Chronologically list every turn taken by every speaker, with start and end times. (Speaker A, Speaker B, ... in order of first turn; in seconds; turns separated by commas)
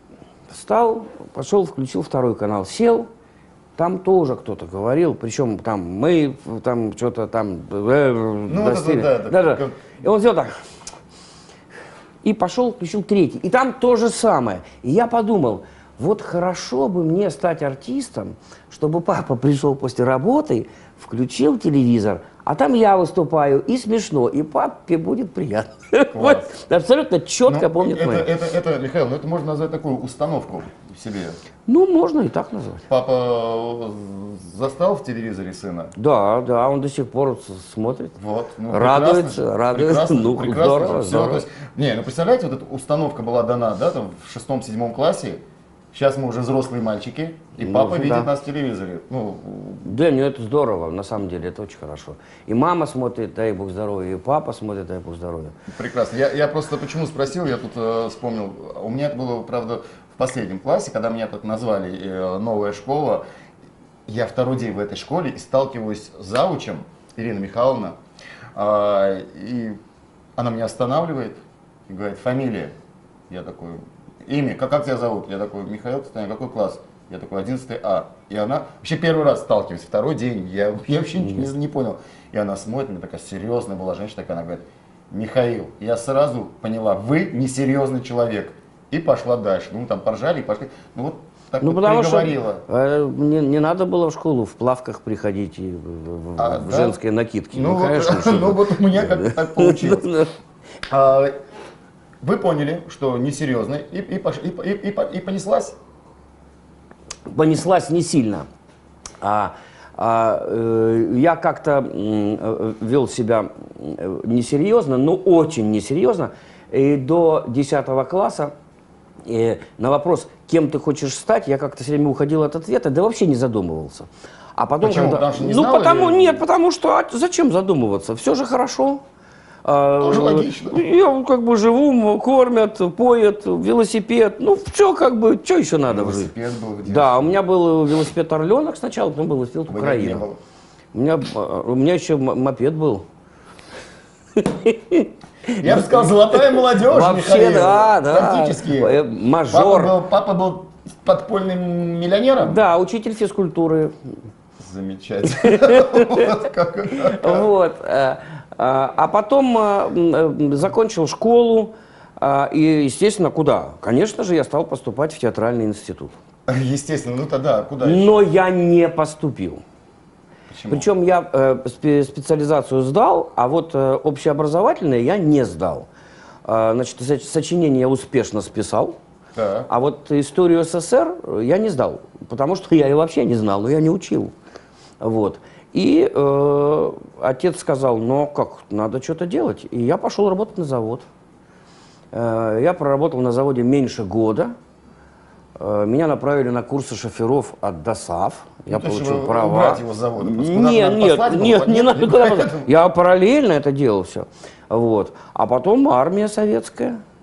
Speaker A: 0.5-3.1, Speaker A: 3.8-10.6, Speaker B: 8.5-10.0, Speaker A: 12.2-28.3, Speaker B: 26.1-26.5, Speaker B: 27.4-31.4, Speaker A: 31.7-32.8, Speaker B: 32.9-35.9, Speaker A: 36.0-38.1, Speaker B: 38.2-45.4, Speaker A: 38.7-41.5, Speaker B: 45.9-49.9, Speaker A: 47.6-48.3, Speaker A: 49.8-55.5, Speaker B: 55.7-63.2, Speaker B: 64.1-68.0, Speaker B: 68.5-69.8, Speaker B: 70.4-72.8, Speaker B: 73.3-92.7, Speaker A: 81.2-81.5, Speaker A: 91.6-100.3, Speaker B: 96.4-97.0, Speaker B: 97.5-100.1, Speaker B: 100.9-101.3, Speaker B: 102.2-105.8, Speaker A: 107.3-108.5, Speaker A: 109.2-118.5, Speaker A: 119.2-129.0, Speaker B: 124.8-126.5, Speaker A: 129.6-136.3, Speaker B: 130.0-130.9, Speaker B: 135.9-137.4, Speaker A: 136.8-140.3, Speaker B: 139.7-140.4, Speaker A: 140.9-143.1, Speaker A: 144.4-149.9, Speaker B: 145.6-152.6, Speaker A: 152.4-154.0, Speaker B: 154.6-157.5, Speaker A: 155.4-156.3, Speaker A: 156.9-166.1, Speaker B: 166.5-168.3, Speaker A: 167.8-169.6, Speaker B: 170.5-170.9, Speaker A: 170.7-175.9, Speaker A: 176.4-179.0, Speaker B: 179.3-179.7, Speaker A: 179.7-184.3, Speaker A: 185.0-191.1, Speaker A: 192.1-194.6, Speaker A: 195.6-207.0, Speaker B: 198.7-202.7